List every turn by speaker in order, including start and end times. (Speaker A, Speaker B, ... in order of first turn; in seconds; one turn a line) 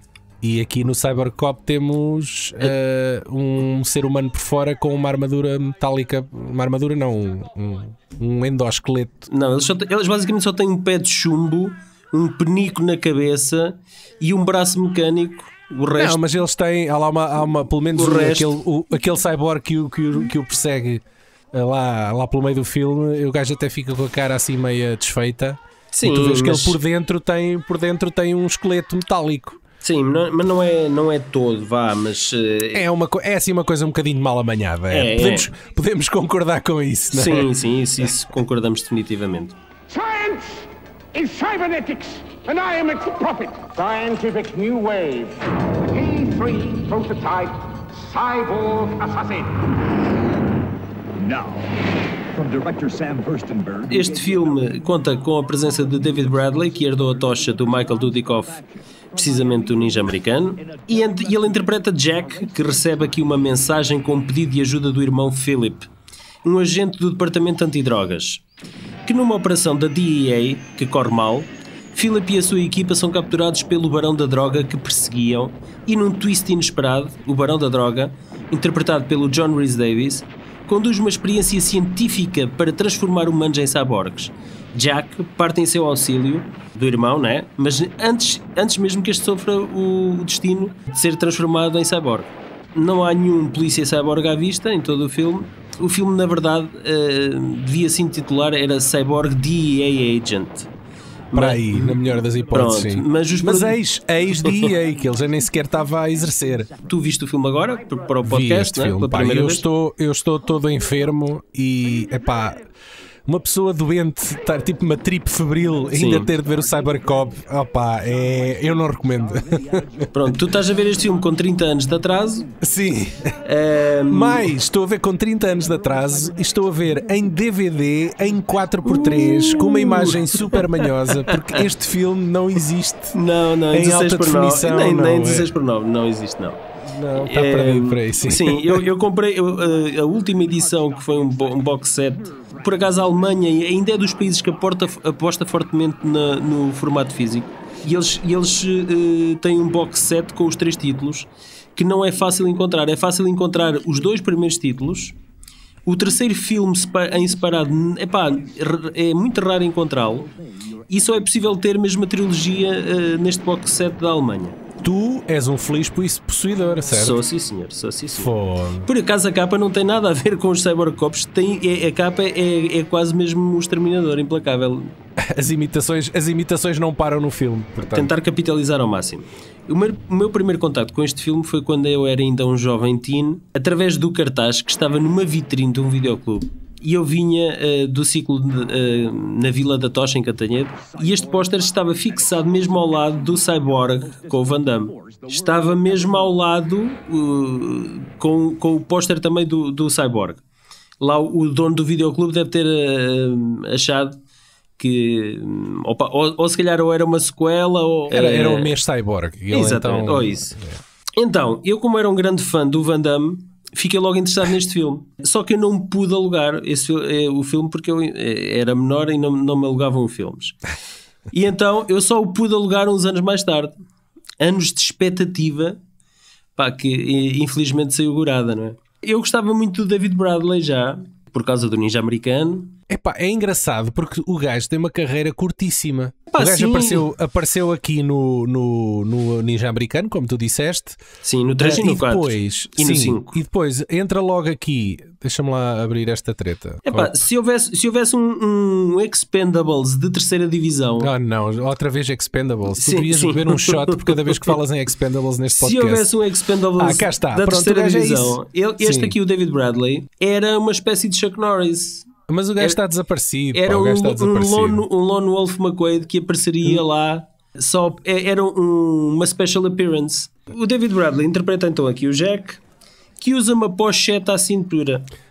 Speaker A: 0.4-9.3
Speaker B: 9.3-16.2
Speaker A: 16.0-29.6
Speaker B: 18.0-18.5
Speaker B: 25.9-26.8
Speaker B: 29.8-32.8
Speaker A: 32.7-37.5
Speaker B: 34.9-35.5
Speaker B: 37.1-39.5
Speaker C: 39.9-49.7
Speaker C: 51.2-51.7
Speaker C: 52.4-54.8
Speaker B: 53.9-58.6
Speaker C: 56.8-58.6
Speaker B: 59.1-65.9
Speaker C: 60.8-61.4
Speaker B: 66.4-68.4
Speaker B: 69.0-100.7
Speaker B: 101.3-103.8
Speaker A: 101.3-106.7
Speaker B: 104.4-104.7
Speaker B: 106.8-109.6
Speaker A: 108.2-112.6
Speaker A: 113.3-120.3
Speaker B: 115.9-116.3
Speaker B: 120.1-122.5
Speaker A: 122.6-123.4
Speaker B: 123.5-124.5
Speaker A: 124.1-133.2
Speaker B: 128.8-131.6
Speaker B: 133.1-136.6
Speaker A: 133.7-135.5
Speaker A: 136.8-138.8
Speaker B: 137.2-155.1
Speaker B: 155.9-160.3
Speaker B: 160.9-164.6
Speaker A: 164.8-167.2
Speaker B: 166.9-168.3
Speaker A: 168.2-168.9
Speaker B: 168.8-174.9
Speaker A: 175.2-178.1
Speaker B: 177.9-200.4
Speaker C: 191.0-191.7
Speaker C: 194.9-196.1
Speaker B: 201.0-204.2
Speaker B: 204.8-208.8
Speaker A: 208.1-210.8
Speaker B: 209.5-210.6
Speaker B: 211.2-220.6
Speaker B: 221.3-223.7
Speaker B: 224.4-225.8
Speaker B: 226.6-232.7
Speaker A: 232.9-241.0
Speaker B: 236.3-237.1
Speaker B: 241.2-243.3
Speaker A: 241.6-247.2
Speaker B: 246.8-251.1
Speaker A: 251.0-256.1
Speaker B: 252.8-254.6
Speaker B: 255.6-262.1
Speaker A: 256.8-259.1
Speaker A: 262.3-264.8
Speaker B: 263.5-272.6
Speaker B: 273.2-275.1